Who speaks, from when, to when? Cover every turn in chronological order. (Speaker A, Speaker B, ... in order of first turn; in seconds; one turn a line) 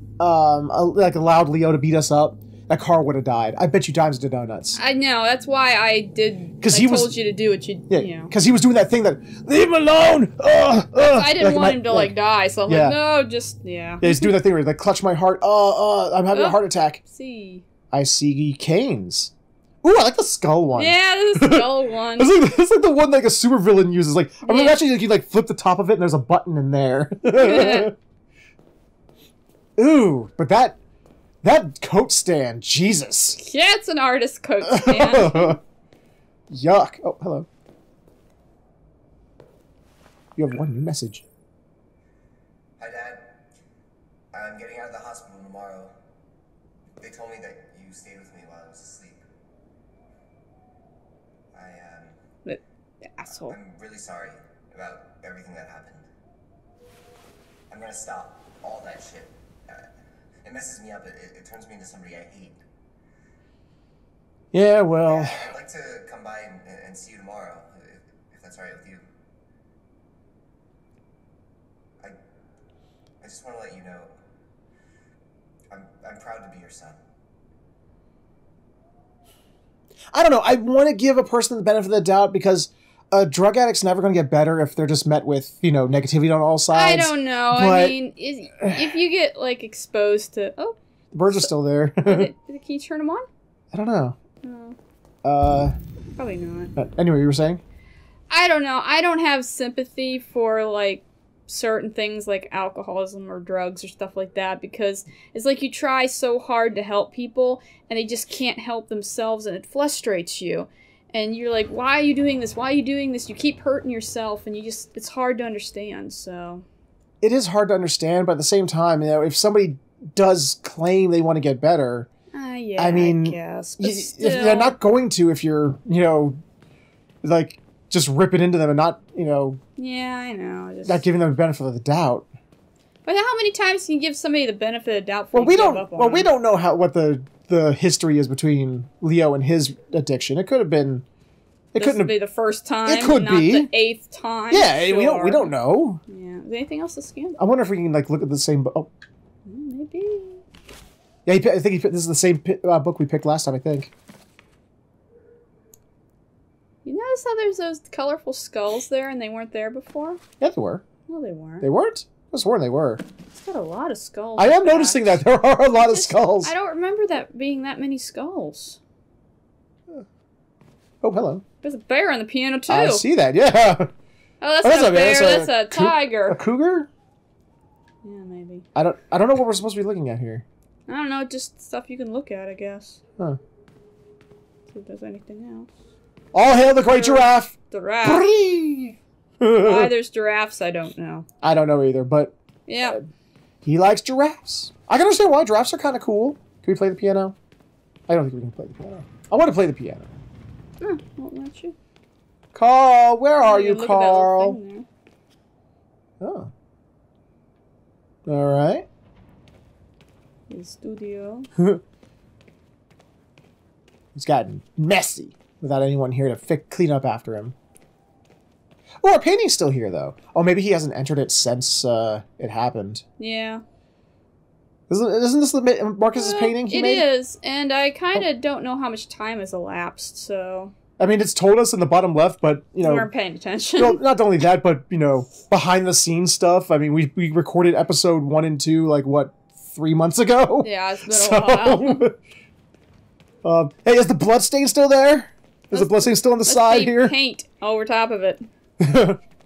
Speaker A: 0.2-4.8
Speaker B: 4.8-8.3
Speaker A: 6.6-7.1
Speaker A: 7.9-12.1
Speaker B: 11.0-14.4
Speaker A: 12.7-13.0
Speaker A: 14.0-17.0
Speaker B: 16.3-17.6
Speaker A: 17.9-19.3
Speaker A: 19.8-27.9
Speaker B: 20.7-22.4
Speaker B: 24.4-24.8
Speaker B: 27.3-27.9
Speaker A: 29.8-30.8
Speaker A: 31.4-33.4
Speaker B: 33.4-35.6
Speaker A: 34.6-35.6
Speaker A: 36.5-37.5
Speaker A: 40.4-41.2
Speaker C: 42.8-43.4
Speaker C: 44.3-46.0
Speaker C: 47.0-49.2
Speaker C: 51.5-52.2
Speaker B: 53.1-53.5
Speaker C: 53.4-56.1
Speaker C: 57.7-59.9
Speaker C: 60.4-62.6
Speaker A: 64.5-65.5
Speaker C: 65.0-69.0
Speaker C: 73.2-74.2
Speaker C: 75.7-77.0
Speaker A: 80.1-88.0
Speaker B: 86.7-90.8
Speaker A: 88.6-88.9
Speaker A: 91.1-92.3
Speaker B: 92.0-93.3
Speaker A: 93.7-94.2
Speaker B: 94.4-94.8
Speaker A: 95.2-95.8
Speaker B: 96.2-96.7
Speaker A: 96.8-97.6
Speaker B: 98.3-116.6
Speaker A: 117.2-122.1
Speaker B: 122.3-124.7
Speaker A: 122.8-126.4
Speaker A: 127.2-129.6
Speaker B: 129.8-131.0
Speaker A: 130.8-132.3
Speaker B: 133.1-136.3
Speaker A: 135.3-141.0
Speaker A: 141.7-142.2
Speaker B: 141.8-145.5
Speaker A: 142.8-143.7
Speaker A: 144.5-146.0
Speaker B: 146.1-147.4
Speaker A: 147.4-148.9
Speaker B: 149.4-150.4
Speaker A: 151.2-153.9
Speaker B: 156.8-160.2
Speaker A: 160.4-160.8
Speaker B: 161.1-161.7
Speaker A: 161.6-163.0
Speaker B: 163.3-165.2
Speaker A: 164.4-166.5
Speaker B: 165.7-168.8
Speaker A: 171.0-171.4
Speaker B: 171.6-173.0
Speaker A: 172.7-173.9
Speaker B: 174.4-176.4
Speaker A: 174.6-176.9
Speaker B: 178.0-178.7
Speaker A: 178.7-180.4
Speaker B: 180.9-183.0
Speaker B: 184.7-185.7
Speaker A: 186.3-189.9
Speaker B: 186.9-188.3
Speaker B: 189.6-191.2
Speaker A: 191.4-193.0
Speaker B: 192.7-193.0
Speaker A: 193.6-197.3
Speaker A: 198.1-200.2
Speaker B: 200.8-201.7
Speaker A: 202.5-204.6
Speaker B: 203.4-204.8
Speaker A: 206.2-206.5
Speaker A: 208.2-208.8
Speaker B: 210.5-211.5
Speaker A: 211.6-211.8
Speaker A: 214.1-217.5
Speaker A: 219.0-223.0
Speaker B: 223.2-223.6
Speaker A: 224.9-227.1
Speaker B: 226.1-230.7
Speaker A: 231.0-233.1
Speaker B: 232.8-234.0
Speaker A: 233.8-242.1
Speaker B: 240.6-242.1
Speaker A: 243.4-247.1
Speaker B: 245.7-248.5
Speaker A: 248.8-249.2